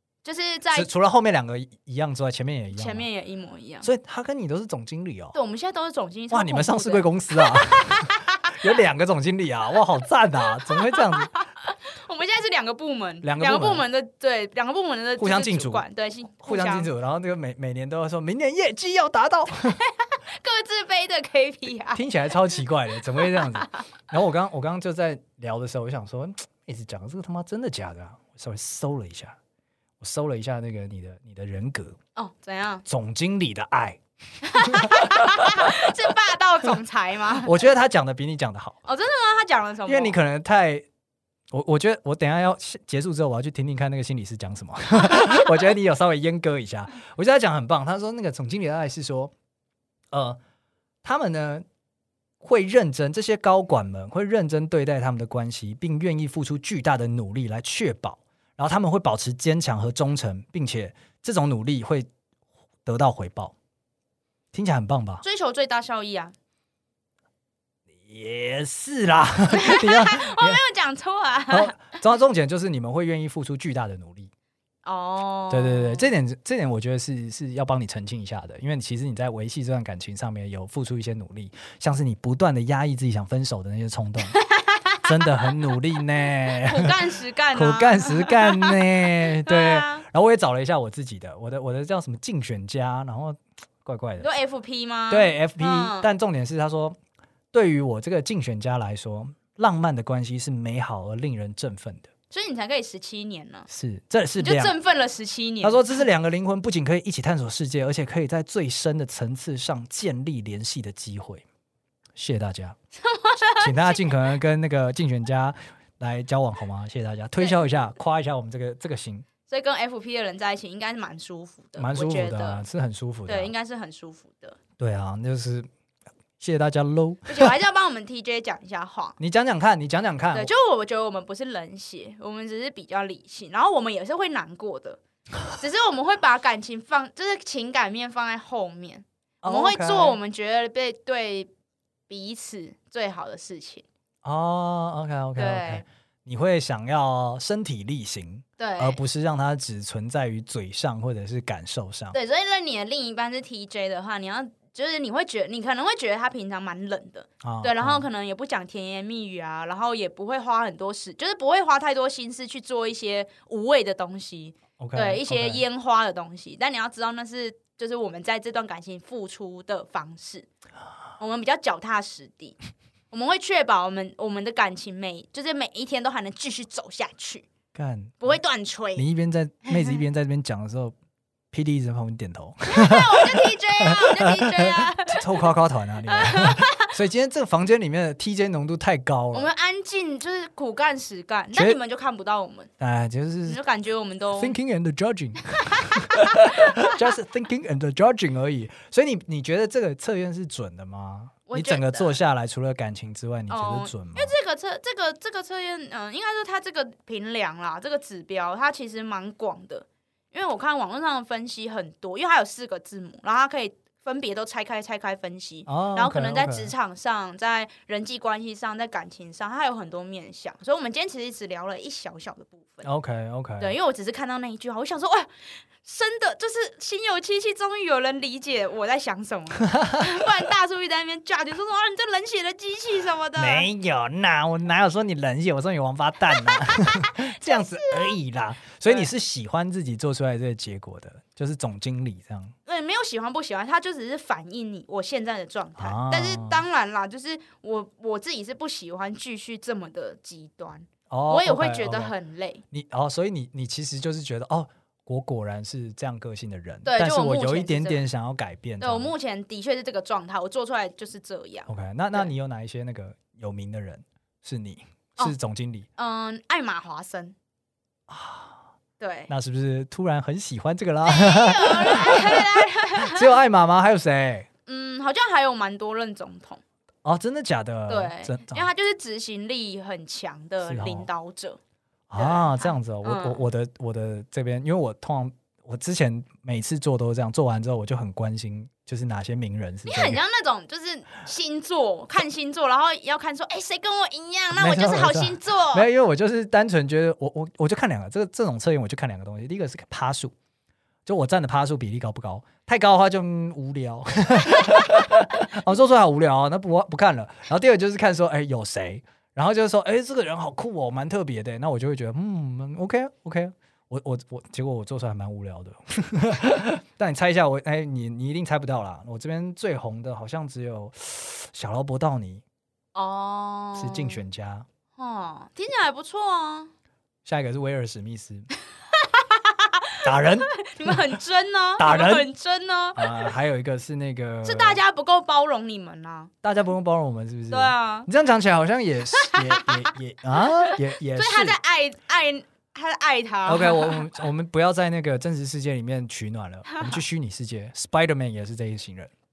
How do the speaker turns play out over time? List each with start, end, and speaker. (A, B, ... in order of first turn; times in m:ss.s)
0:00.2-0:00.9 A
0:00.7-0:03.1 B
0:02.7-0:03.9 A
0:03.8-0:05.4 B
0:05.3-0:08.2 A
0:06.3-0:11.3 B
0:10.7-0:16.9 A
0:13.2-0:13.9 B
0:15.2-0:15.8 B
0:16.4-0:19.8 B
0:20.0-0:22.0 A
0:21.9-0:29.4 B
0:23.2-0:23.8 A
0:30.0-0:32.0 B
0:32.2-0:32.8 A
0:32.8-0:34.0 B
0:34.4-0:37.6 A
0:34.6-0:35.7 B
0:37.4-0:38.8 B
0:38.8-0:40.2 A
0:39.9-0:40.8 B
0:41.5-0:49.3 B
0:50.1-0:50.4 B
0:51.0-0:51.6 B
0:52.4-1:02.1 B
1:02.9-1:03.5 B
1:04.5-1:05.2 B
1:05.2-1:06.3 A
1:08.0-1:10.6 B
1:09.5-1:11.8 A
1:11.5-1:14.3 B
1:14.8-1:16.1 A
1:15.5-1:24.4 B
1:24.3-1:25.3 A
1:25.0-1:27.0 B
1:26.5-1:28.8 A
1:27.5-1:34.3 B
1:29.5-1:30.0 A
1:34.2-1:36.1 A
1:35.1-1:37.0 B
1:37.5-1:42.1 B
1:42.3-1:43.7 A
1:43.7-1:44.8 B
1:44.4-1:46.0 A
1:45.6-1:51.4 B
1:52.2-1:52.8 B
1:53.0-1:54.0 A
1:53.6-1:59.2 B
1:59.5-2:02.6 A
2:01.8-2:03.5 B
2:03.3-2:04.6 A
2:04.8-2:05.7 B
2:06.4-2:07.5 B
2:07.2-2:09.2 A
2:09.2-2:10.5 B
2:10.3-2:15.0 A
2:15.5-2:21.5 A
2:19.4-2:20.2 B
2:22.1-2:23.8 A
2:24.2-2:32.2 B
2:25.4-2:25.8 A
2:28.6-2:29.0 A
2:32.1-2:50.5 A
2:37.4-2:38.1 B
2:44.8-2:45.6 B
2:51.2-2:52.6 A
2:53.1-2:57.5 A
2:57.7-2:58.4 B
2:58.2-2:59.1 A
2:59.0-3:00.9 B
3:01.5-3:09.5 B
3:02.7-3:05.2 A
3:06.1-3:06.9 A
3:09.3-3:12.7 A
3:11.5-3:11.8 B
3:12.8-3:13.6 B
3:13.5-3:14.6 A
3:14.4-3:24.3 B
3:16.4-3:16.9 A
3:21.5-3:22.2 A
3:23.5-3:42.9 A
3:35.6-3:36.7 B
3:42.8-3:43.8 B
3:43.6-3:53.7 A
3:53.4-4:02.5 B
3:56.4-3:58.2 A
4:02.6-4:12.6 A
4:05.8-4:06.6 B
4:11.1-4:12.1 B
4:12.7-4:19.1 B
4:16.8-4:18.0 A
4:18.8-4:22.3 A
4:21.7-4:25.9 B
4:26.0-4:27.4 A
4:28.1-4:28.6 B
4:29.0-4:29.3 A
4:29.3-4:34.5 B
4:31.0-4:33.3 A
4:34.7-4:36.6 A
4:37.0-4:38.7 B
4:37.9-4:41.6 A
4:40.6-4:41.1 B
4:42.1-4:50.2 B
4:42.2-4:43.4 A
4:49.8-4:55.9 A
4:54.5-5:00.3 B
5:01.0-5:22.4 B
5:23.0-5:24.2 A
5:23.8-5:24.7 B
5:25.0-5:26.7 A
5:27.2-5:28.5 B
5:29.0-5:33.3 A
5:30.0-5:31.0 B
5:31.8-5:32.2 B
5:33.0-5:34.8 B
5:34.4-5:36.3 A
5:36.4-5:41.6 B
5:37.5-5:38.1 A
5:39.2-5:44.0 A
5:43.5-5:49.1 B